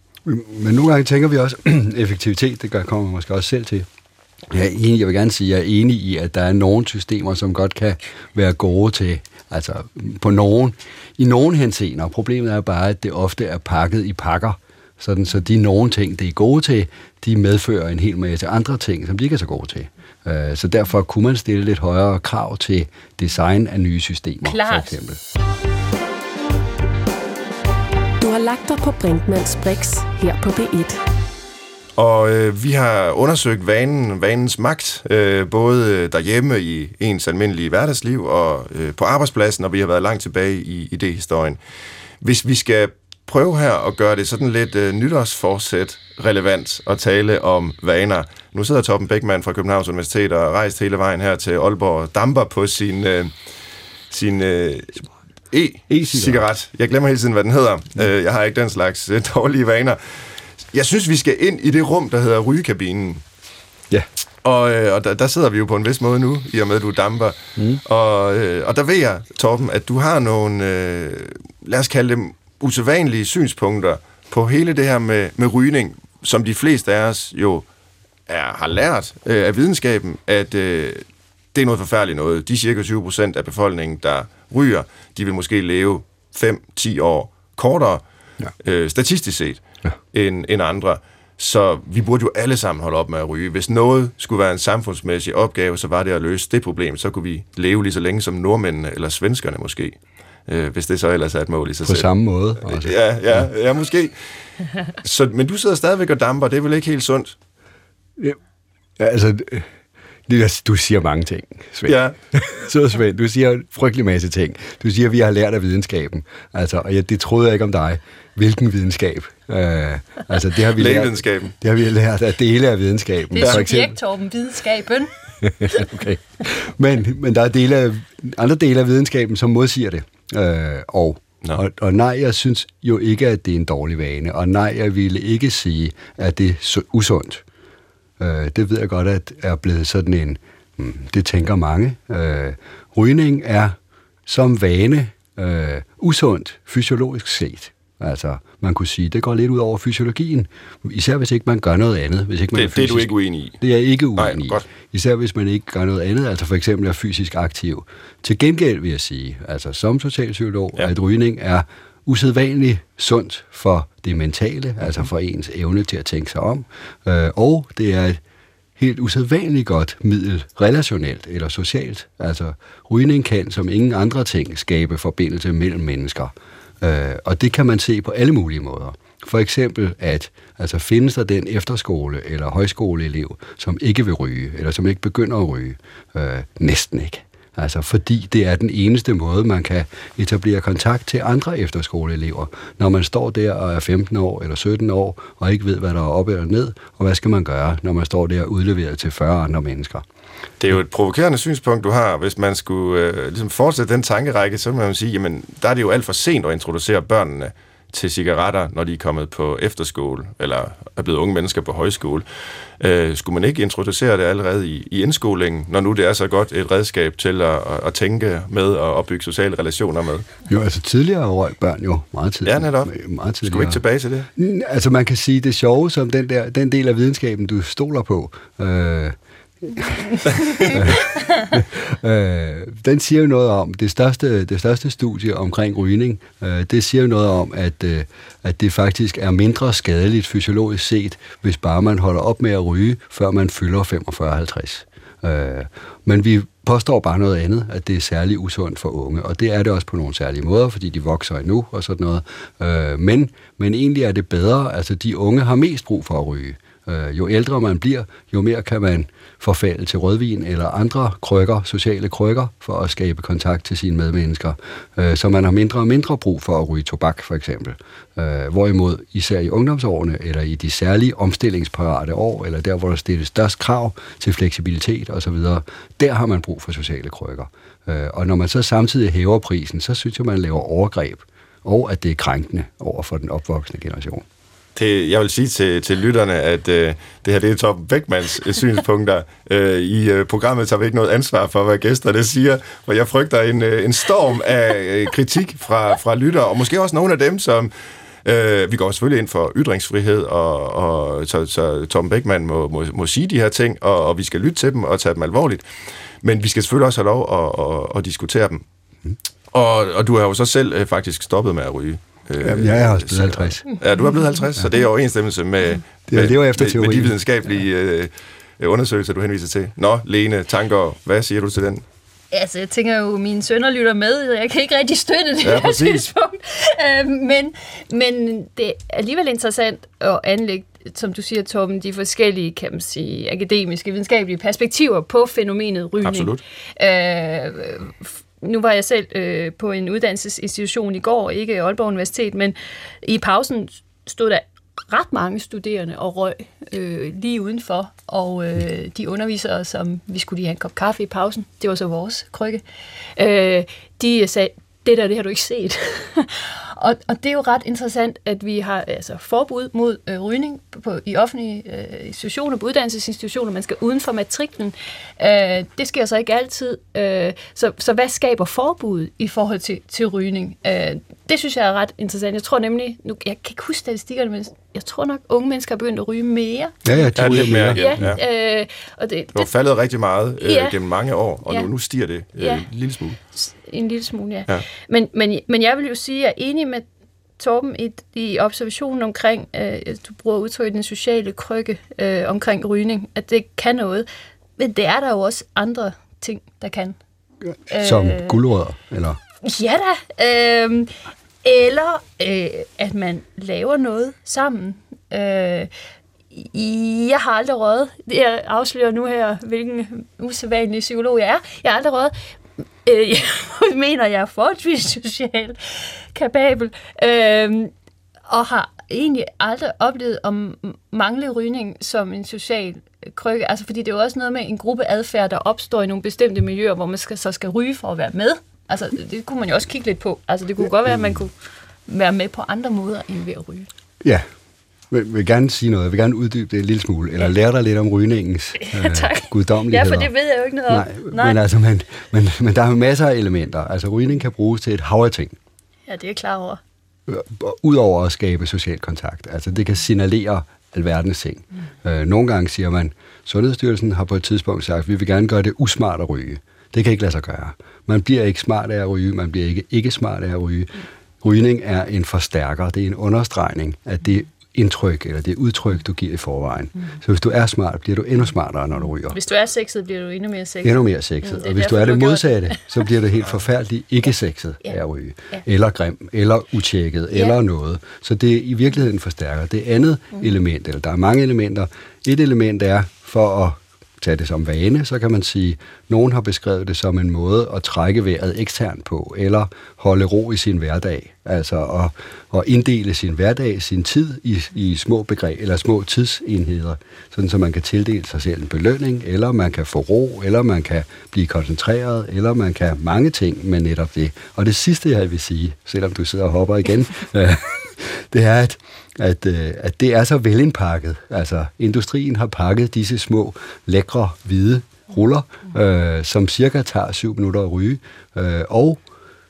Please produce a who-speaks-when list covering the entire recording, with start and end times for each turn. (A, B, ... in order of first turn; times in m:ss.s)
0:00.3-0:03.9 A
0:04.5-0:25.2 A
0:24.4-0:25.0 B
0:28.2-0:31.0 C
0:32.0-0:41.6 D
0:42.2-0:53.3 D
0:54.1-1:00.0 D
0:55.9-0:56.5 A
1:00.7-1:03.2 D
1:04.4-1:17.6 D
1:18.3-1:28.0 D
1:28.6-1:42.1 D
1:41.8-1:43.5 A
1:42.7-1:44.1 D
1:45.0-1:47.4 D
1:49.0-1:49.7 A
1:50.3-2:04.0 A
1:51.9-1:52.2 D
2:00.7-2:01.5 D
2:03.3-2:05.1 B
2:05.4-2:17.4 A
2:18.2-2:48.2 A
2:32.5-2:33.6 D
2:34.2-2:34.6 D
2:48.8-3:20.0 A
3:20.6-3:32.2 D
3:32.8-3:40.3 D
3:40.5-3:43.8 A
3:42.4-3:42.9 D
3:43.4-3:44.3 D
3:44.4-4:44.2 A
4:44.8-4:57.7 D
4:58.2-5:05.6 D
5:06.2-5:08.6 D
5:09.5-5:21.8 D
5:12.4-5:13.6 A
5:16.1-5:17.2 A
5:22.3-5:52.6 B
5:25.4-5:26.1 D
5:36.0-5:36.4 D
5:53.2-6:19.5 B
6:16.8-6:18.1 A
6:17.2-6:18.2 D
6:19.4-6:23.2 D
6:20.4-6:20.8 B
6:22.4-6:22.6 B
6:23.4-6:26.8 B
6:27.4-6:34.1 B
6:34.6-6:37.0 B
6:37.7-6:38.4 B
6:37.8-6:39.2 A
6:39.4-6:40.9 B
6:41.4-6:45.7 B
6:46.3-6:52.1 B
6:52.8-6:57.7 B
6:58.3-7:11.4 B
7:11.9-7:13.7 B
7:14.9-7:20.1 A
7:18.6-7:21.4 B
7:20.7-7:25.4 A
7:25.9-7:26.6 B
7:27.1-7:49.2 A
7:49.1-7:52.7 B
7:50.6-8:38.8 A
7:57.1-7:57.4 B